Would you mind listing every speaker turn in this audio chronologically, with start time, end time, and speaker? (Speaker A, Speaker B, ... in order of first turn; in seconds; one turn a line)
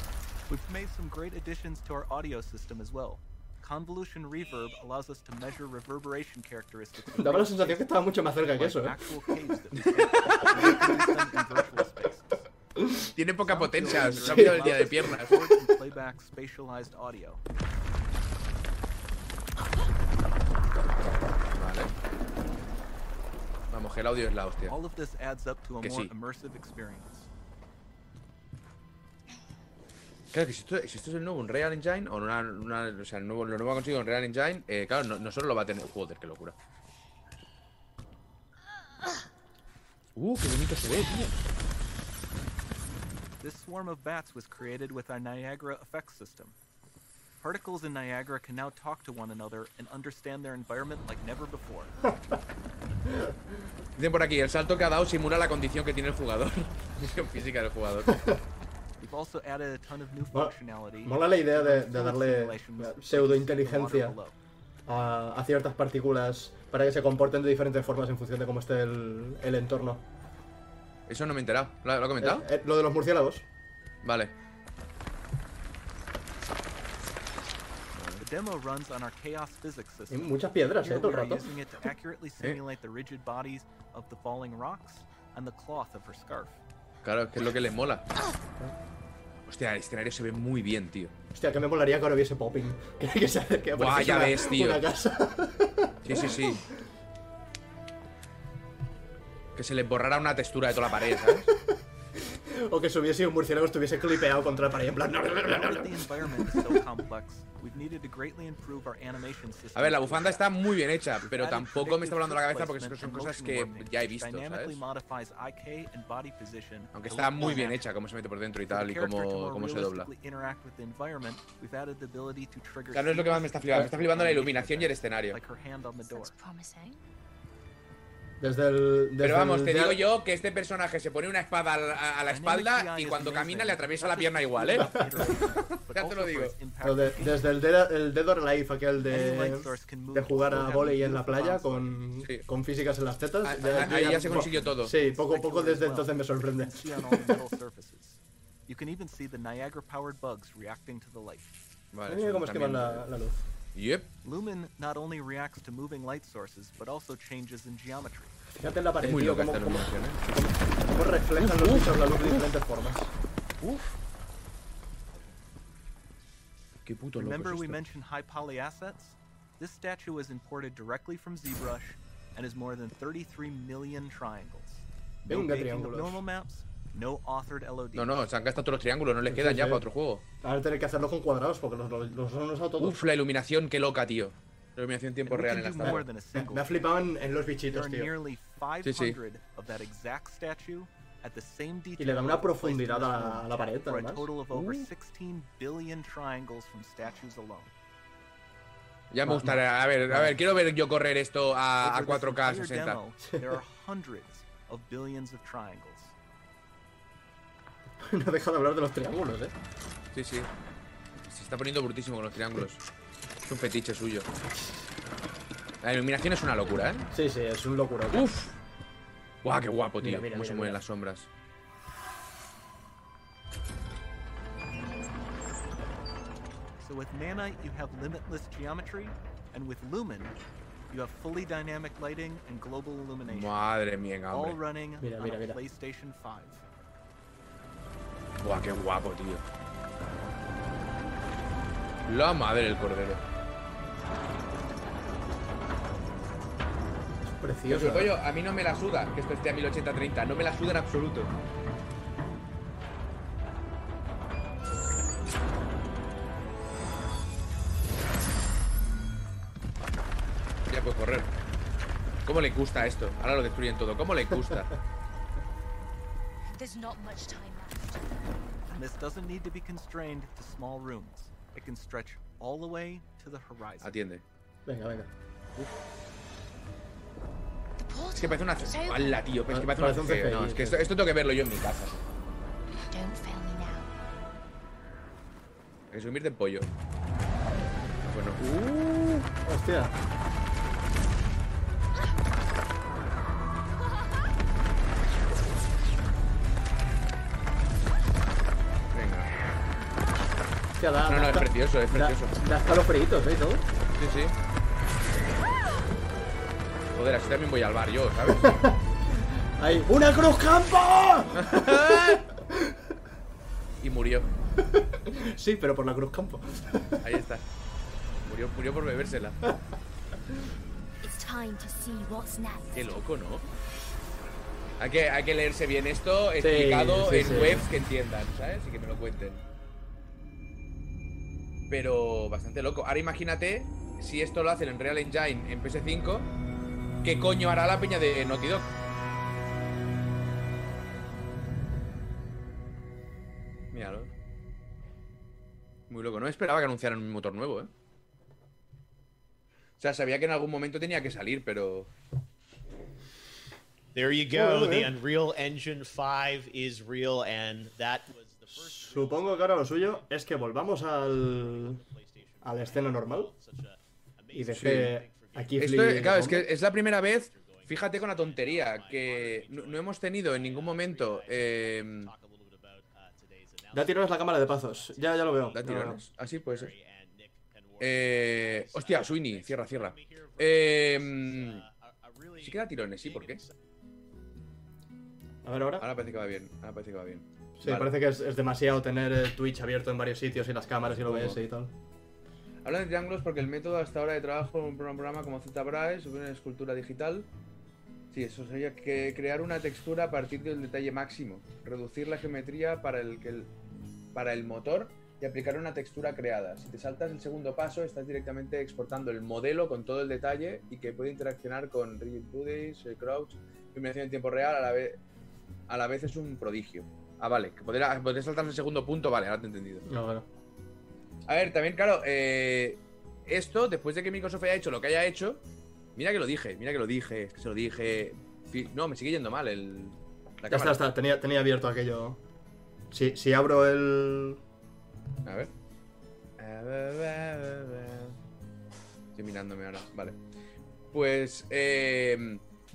Speaker A: 0.5-12.4
Speaker B: 7.2-8.9
Speaker C: 9.8-10.8
Speaker B: 12.8-13.1
Speaker C: 13.1-15.3
Speaker A: 13.4-17.4
Speaker B: 14.2-14.9
Speaker C: 21.6-21.9
Speaker C: 23.7-24.7
Speaker A: 24.7-27.3
Speaker C: 25.8-26.1
Speaker C: 30.3-36.5
Speaker C: 40.1-41.4
Speaker A: 43.4-46.6
Speaker A: 47.4-52.0
Speaker B: 52.1-52.4
Speaker B: 53.1-53.4
Speaker C: 54.0-58.2
Speaker B: 58.1-58.4
Speaker A: 59.0-64.3
Speaker B: 61.0-64.2
Speaker B: 64.9-70.0
Speaker C: 71.1-72.5
Speaker B: 72.2-73.4
Speaker C: 74.0-74.3
Speaker C: 78.0-78.2
Speaker A: 78.2-86.5
Speaker B: 80.1-81.5
Speaker C: 87.0-88.1
Speaker C: 89.5-91.1
Speaker B: 91.3-96.6
Speaker C: 93.7-94.8
Speaker C: 96.0-96.6
Speaker C: 99.6-101.5
Speaker B: 101.6-106.7
Speaker A: 105.4-110.5
Speaker C: 109.7-114.8
Speaker A: 111.2-117.8
Speaker C: 116.9-120.1
Speaker A: 118.7-126.3
Speaker C: 122.9-125.4
Speaker D: 126.1-127.0
Speaker B: 128.4-130.0
Speaker C: 129.2-134.9
Speaker A: 132.3-137.5
Speaker C: 135.9-136.6
Speaker B: 136.8-147.4
Speaker A: 139.0-142.1
Speaker C: 143.4-144.9
Speaker A: 143.7-151.7
Speaker C: 151.9-153.1
Speaker B: 152.1-153.4
Speaker C: 153.7-154.1
Speaker A: 154.2-158.4
Speaker B: 158.6-163.1
Speaker C: 159.0-160.3
Speaker C: 161.4-162.5
Speaker C: 163.6-163.9
Speaker C: 166.8-167.8
Speaker A: 167.2-178.2
Speaker B: 175.3-176.2
Speaker C: 177.9-180.2
Speaker B: 179.3-179.8
Speaker B: 180.4-183.1
Speaker C: 182.8-186.0
Speaker A: 185.3-186.8
Speaker B: 185.8-188.1
Speaker A: 187.7-197.7
Speaker C: 188.8-189.2
Speaker B: 192.0-194.3
Speaker C: 194.5-194.9
Speaker C: 199.1-203.0
Speaker B: 199.2-200.3
Speaker A: 201.8-206.1
Speaker B: 208.0-209.5
Speaker C: 210.1-210.5
Speaker C: 211.2-212.8
Speaker C: 213.4-214.3
Speaker C: 215.8-217.1
Speaker B: 217.1-218.3
Speaker C: 218.1-218.6
Speaker C: 219.4-221.3
Speaker B: 220.0-220.8
Speaker A: 226.8-230.4
Speaker A: 230.9-233.6
Speaker C: 233.3-234.6
Speaker A: 234.3-236.6
Speaker B: 235.0-235.6
Speaker C: 238.4-239.4
Speaker C: 242.1-243.2
Speaker B: 247.2-248.1
Speaker C: 247.7-251.3
Speaker C: 260.7-261.3
Speaker C: 262.3-264.8
Speaker D: 266.5-268.1
Speaker A: 268.7-274.0
Speaker C: 273.8-274.2
Speaker B: 274.7-275.1
Speaker D: 277.8-279.3
Speaker C: 278.1-282.0
Speaker B: 279.5-280.9
Speaker D: 282.9-283.9
Speaker C: 285.9-286.7
Speaker C: 288.0-288.9
Speaker B: 288.6-289.9
Speaker C: 298.9-299.3
Speaker B: 300.8-303.6
Speaker C: 301.1-302.4
Speaker C: 304.0-304.3
Speaker C: 306.9-308.5
Speaker B: 308.3-308.8
Speaker B: 309.6-312.7
Speaker C: 311.3-312.3
Speaker C: 313.8-314.3
Speaker B: 314.7-317.0
Speaker C: 317.0-317.4
Speaker C: 318.3-319.4
Speaker D: 321.0-323.0
Speaker C: 322.7-323.4
Speaker C: 324.8-329.4
Speaker B: 326.4-327.7
Speaker C: 331.7-336.3
Speaker C: 337.0-338.7
Speaker C: 343.7-344.1
Speaker C: 345.9-347.7
Speaker C: 349.8-351.9
Speaker E: 353.9-360.4
Speaker B: 354.3-354.9
Speaker B: 358.7-361.8
Speaker E: 361.1-375.9
Speaker B: 362.4-363.3
Speaker B: 364.3-366.4
Speaker C: 364.6-364.9
Speaker C: 365.6-372.1
Speaker B: 373.7-376.0
Speaker C: 375.6-376.7
Speaker E: 376.5-383.6
Speaker C: 377.8-381.6
Speaker C: 382.4-383.4
Speaker B: 385.4-385.8
Speaker C: 385.8-387.9
Speaker B: 387.6-391.7
Speaker C: 391.0-391.4
Speaker C: 392.6-397.3
Speaker C: 398.1-403.5
Speaker C: 404.1-415.0
Speaker C: 415.7-419.9
Speaker B: 419.9-420.3
Speaker C: 421.3-425.4
Speaker C: 425.9-430.8
Speaker B: 430.5-432.2
Speaker B: 432.9-434.4
Speaker C: 435.2-435.5
Speaker C: 436.4-438.2
Speaker C: 439.1-440.2
Speaker C: 440.9-442.4